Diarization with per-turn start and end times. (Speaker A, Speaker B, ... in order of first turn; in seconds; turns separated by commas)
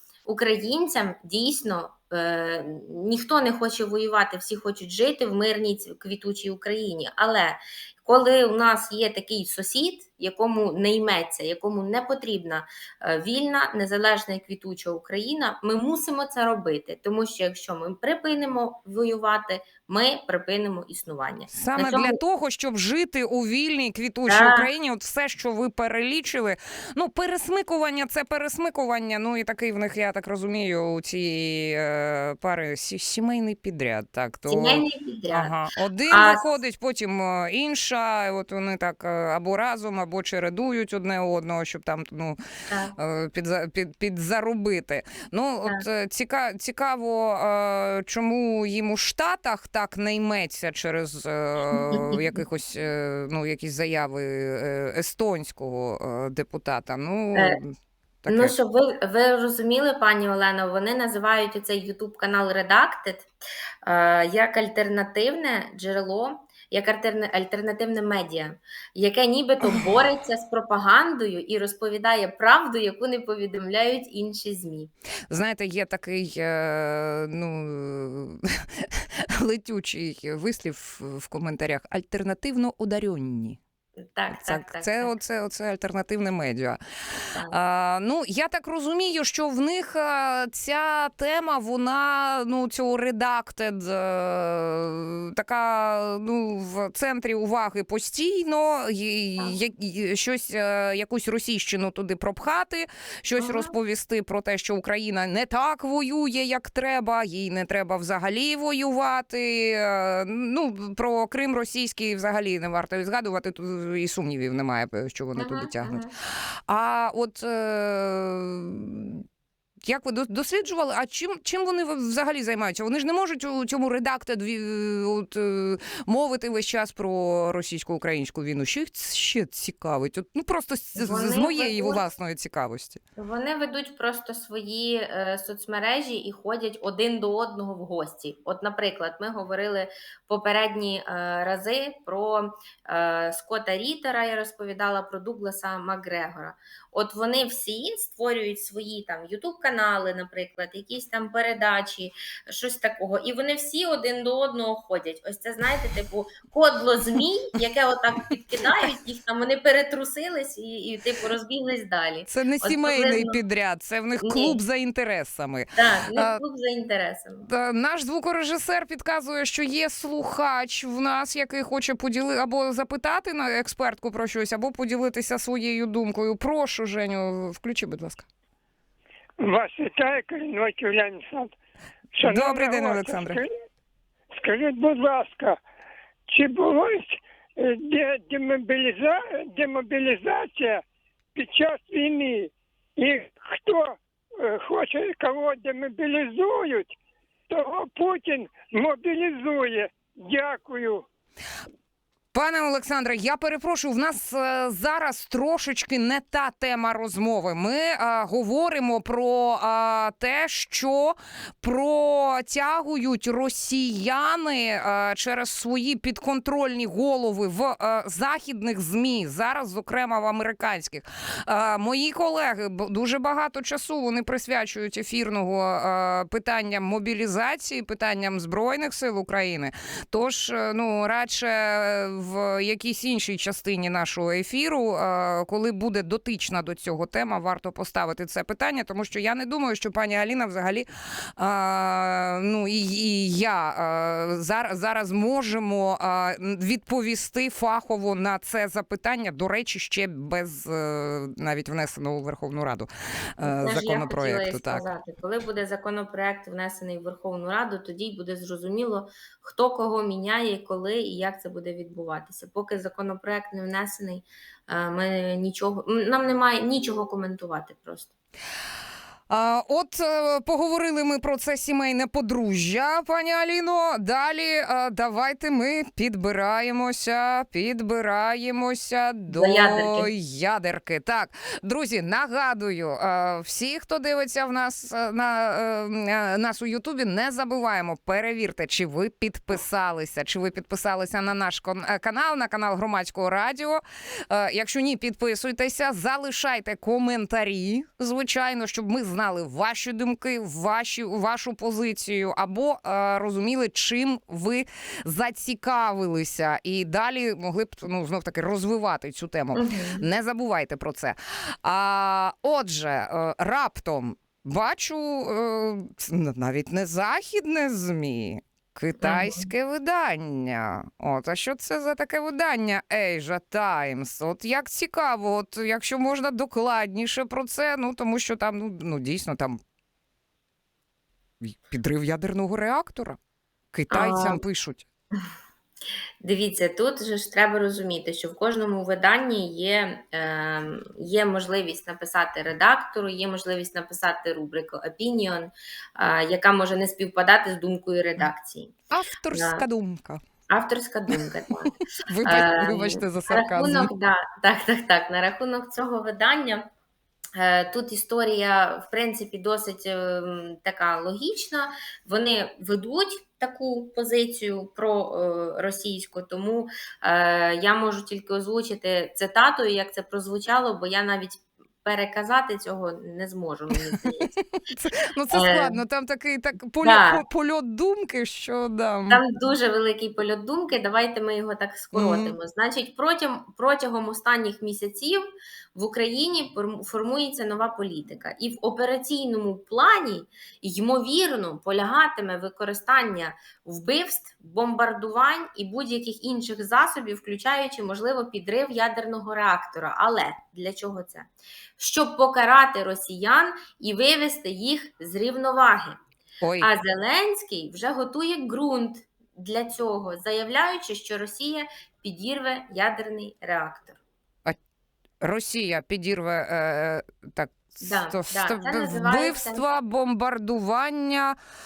Speaker A: 0.2-22.2, Speaker B: 21.5-42.4, Speaker A: 24.3-24.7, Speaker A: 34.5-35.5, Speaker A: 36.1-36.5, Speaker A: 42.7-43.0, Speaker B: 43.0-58.5, Speaker A: 51.7-52.2, Speaker A: 58.3-63.3, Speaker A: 63.8-74.9, Speaker B: 75.3-83.6, Speaker A: 84.0-85.1, Speaker B: 84.3-86.8, Speaker B: 87.5-119.2, Speaker A: 103.4-103.7, Speaker A: 115.4-116.1, Speaker B: 119.8-133.0, Speaker A: 131.0-132.0, Speaker A: 133.2-163.4, Speaker B: 162.3-166.4, Speaker A: 164.2-164.6, Speaker A: 165.8-167.5, Speaker B: 167.5-178.3, Speaker C: 179.4-181.6, Speaker C: 182.2-183.5, Speaker B: 182.2-183.4, Speaker C: 184.3-185.6, Speaker C: 186.3-190.8, Speaker C: 191.4-196.9, Speaker C: 197.5-201.0, Speaker B: 202.3-254.8, Speaker A: 253.4-268.1, Speaker B: 269.3-329.6, Speaker A: 279.3-280.1, Speaker A: 309.5-310.1, Speaker A: 319.0-319.5, Speaker B: 331.4-333.2, Speaker B: 333.7-334.9, Speaker A: 333.9-334.4, Speaker A: 336.2-348.8, Speaker B: 348.9-350.2, Speaker A: 349.3-349.6, Speaker A: 350.5-356.7, Speaker B: 352.1-353.9, Speaker A: 357.4-374.3, Speaker B: 374.5-379.2, Speaker A: 375.3-375.8, Speaker A: 376.8-377.2, Speaker A: 379.1-406.0, Speaker B: 381.9-382.4, Speaker B: 406.4-406.7, Speaker A: 406.6-414.0, Speaker B: 415.2-421.4, Speaker A: 417.8-419.6